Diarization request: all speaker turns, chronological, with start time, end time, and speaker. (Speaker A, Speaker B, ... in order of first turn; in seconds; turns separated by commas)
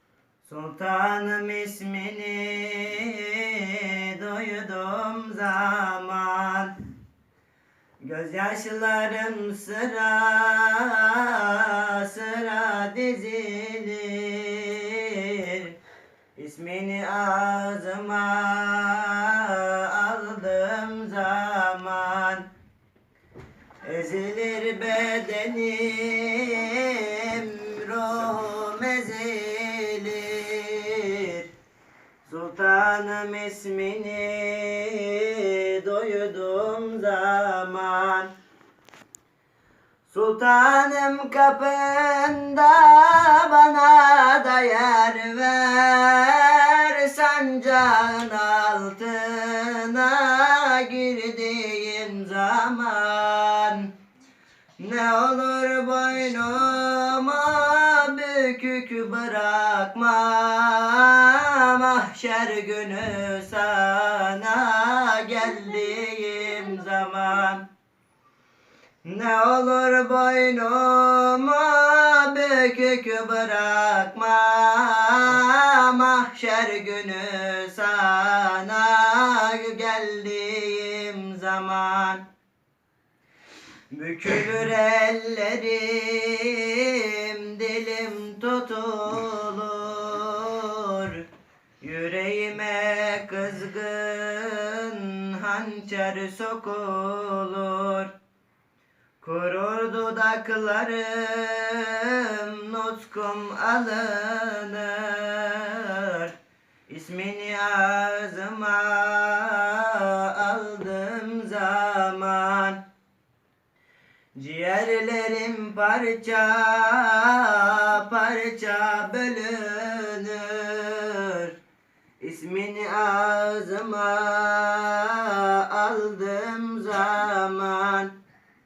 Speaker A: 0.4-6.7, Speaker A: 8.0-15.8, Speaker A: 16.4-22.5, Speaker A: 23.8-31.5, Speaker A: 32.2-38.3, Speaker A: 40.1-53.9, Speaker A: 54.8-67.6, Speaker A: 69.0-82.2, Speaker A: 83.9-91.3, Speaker A: 91.8-98.1, Speaker A: 99.2-106.3, Speaker A: 106.9-112.8, Speaker A: 114.4-121.5, Speaker A: 122.2-128.1